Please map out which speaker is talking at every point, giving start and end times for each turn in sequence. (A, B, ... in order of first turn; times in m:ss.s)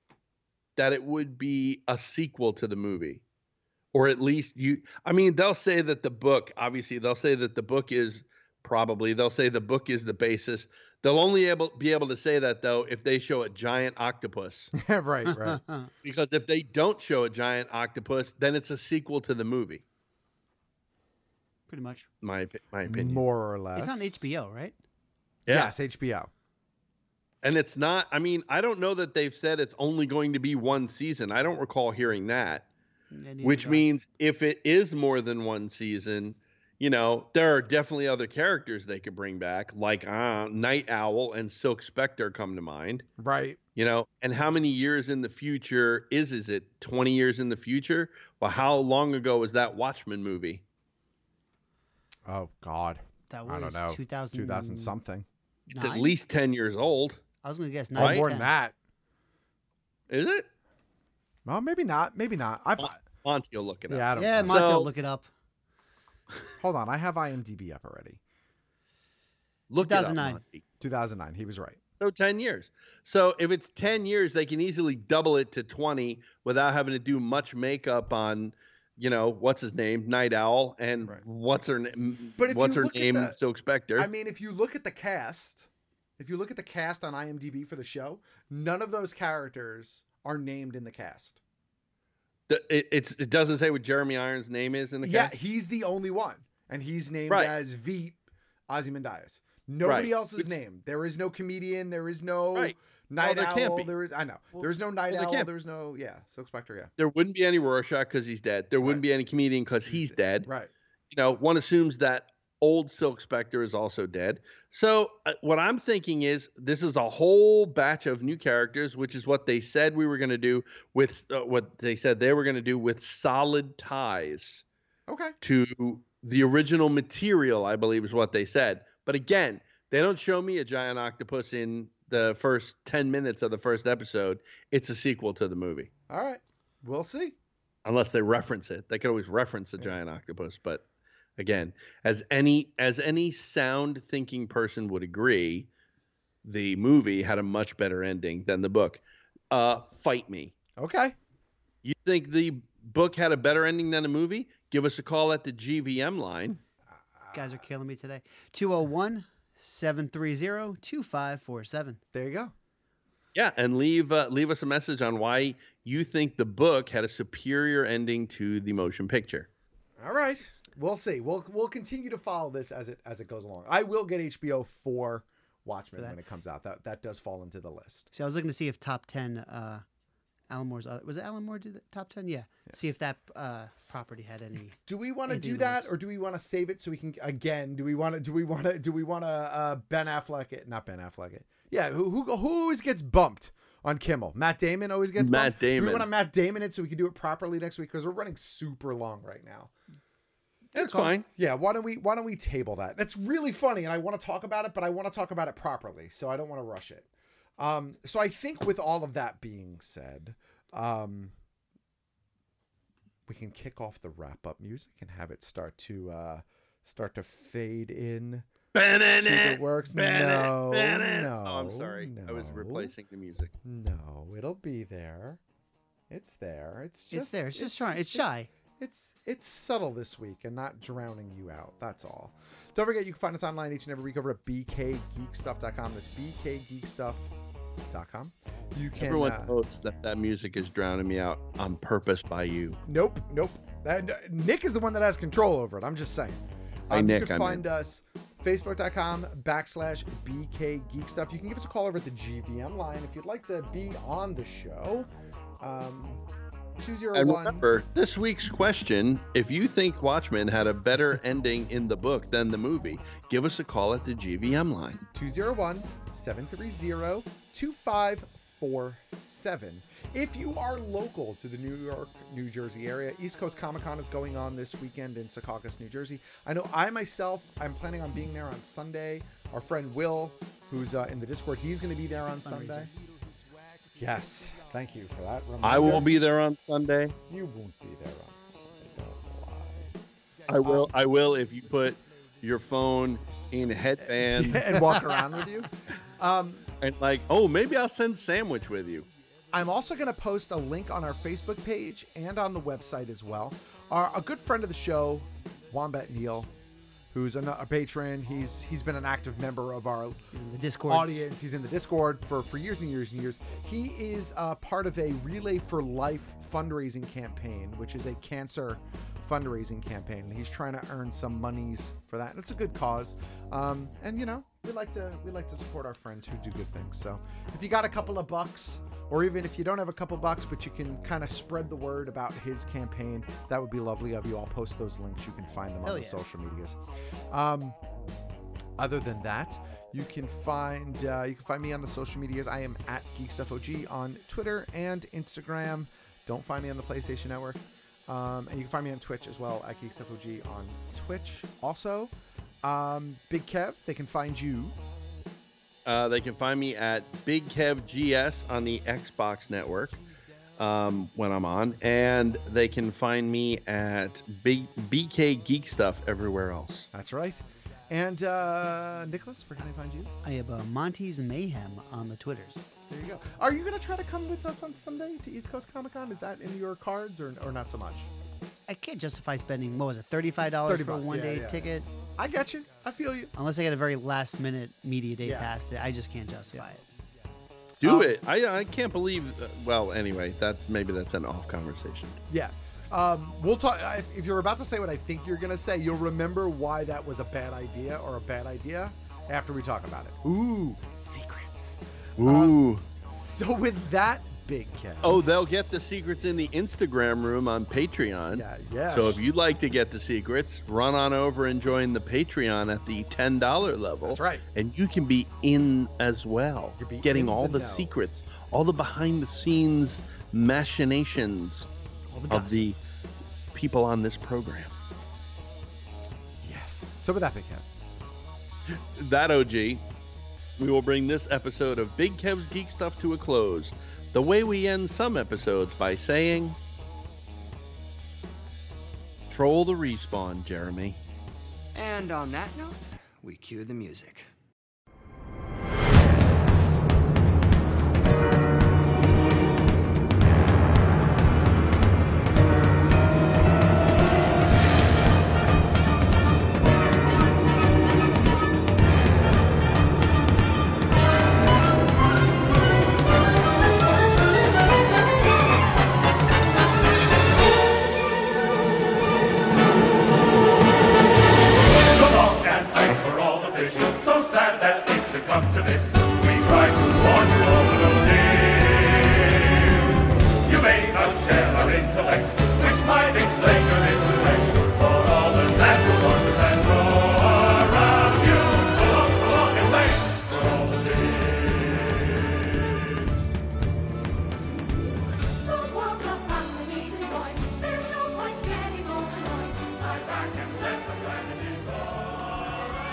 0:00.8-0:03.2 A
0:03.9-0:14.7 A
0:14.8-0:15.6 B
0:15.3-0:15.9 C
0:16.0-0:19.8 A
0:21.7-0:22.1 C
0:22.2-0:23.2 A
0:22.9-0:24.2 B
0:23.8-0:24.8 C
0:25.5-0:25.7 A
0:25.5-0:26.3 B
0:27.4-0:32.7 A
0:33.1-0:33.9 C
0:33.4-0:43.0 A
0:43.2-0:43.6 B
0:43.8-0:50.6 A
0:52.3-0:55.3 B
0:53.3-0:55.0 C
0:55.7-0:56.1 C
0:55.7-0:57.2 A
0:57.4-0:58.5 C
0:58.0-0:58.2 A
0:58.0-0:58.8 B
1:00.1-1:00.5 A
1:01.5-1:03.0 B
1:02.8-1:04.9 A
1:03.9-1:04.7 B
1:04.2-1:05.3 C
1:06.6-1:08.2 B
1:09.7-1:10.6 A
1:09.8-1:10.4 C
1:10.8-1:11.8 B
1:12.0-1:24.1 A
1:22.4-1:23.4 B
1:24.0-1:31.4 B
1:32.5-1:35.3 A
1:35.0-1:46.9 B
1:37.3-1:37.6 A
1:39.8-1:40.5 A
1:42.6-1:43.9 A
1:44.6-1:45.5 A
1:47.0-1:50.5 A
1:49.9-1:50.7 B
1:51.1-2:04.6 A
2:05.1-2:05.4 B
2:05.4-2:15.9 A
2:16.1-2:17.4 B
2:17.8-2:20.8 A
2:21.4-2:25.7 A
2:26.4-2:30.5 A
2:30.8-2:31.2 B
2:31.8-2:36.6 A
2:37.2-2:37.6 B
2:37.3-2:42.0 C
2:42.1-2:42.5 B
2:43.4-2:49.5 A
2:50.0-2:58.1 B
2:58.1-2:59.8 C
3:00.5-3:05.9 C
3:04.8-3:19.7 B
3:15.2-3:16.1 A
3:20.7-3:31.3 B
3:20.8-3:21.2 A
3:33.3-3:38.5 B
3:38.7-3:43.5 A
3:39.2-3:42.9 B
3:43.6-3:45.4 B
3:46.1-3:57.3 B
3:47.1-3:48.5 C
3:57.9-3:59.6 B
3:59.0-4:02.8 A
4:02.9-4:15.1 B
4:06.9-4:07.6 A
4:15.6-4:16.2 B
4:16.8-4:17.7 B
4:17.2-4:25.0 A
4:25.1-4:42.9 B
4:42.4-4:42.9 C
4:44.0-4:46.2 B
4:45.6-4:47.2 A
4:47.3-4:50.0 B
4:50.5-4:54.6 A
4:50.6-4:51.0 B
4:54.0-4:56.7 B
4:56.8-4:59.1 A
4:59.5-5:06.5 B
5:07.1-5:10.2 B
5:10.3-5:11.2 C
5:10.9-5:36.8 B
5:35.8-5:36.2 C
5:37.3-5:37.8 B
5:38.8-5:54.8 B
5:55.9-6:00.0 A
6:00.6-6:06.9 A
6:06.9-6:10.1 B
6:10.2-6:12.6 C
6:12.9-6:18.1 B
6:18.7-6:21.9 C
6:20.6-6:23.3 B
6:23.3-6:26.8 C
6:25.2-6:25.5 B
6:27.8-6:32.2 A
6:27.8-6:28.2 B
6:32.3-6:45.3 B
6:42.2-6:42.8 A
6:45.0-7:01.7 A
6:48.3-6:49.2 B
6:54.0-6:54.4 B
6:56.8-6:57.9 B
7:02.1-7:02.6 B
7:02.3-7:02.8 A
7:03.5-7:04.7 A
7:06.4-7:07.7 B
7:08.7-7:09.8 A
7:10.6-7:16.6 A
7:19.3-7:21.0 A
7:21.8-7:24.2 D
7:51.9-7:59.8 E
8:00.4-8:12.0 E
8:20.2-8:22.0 E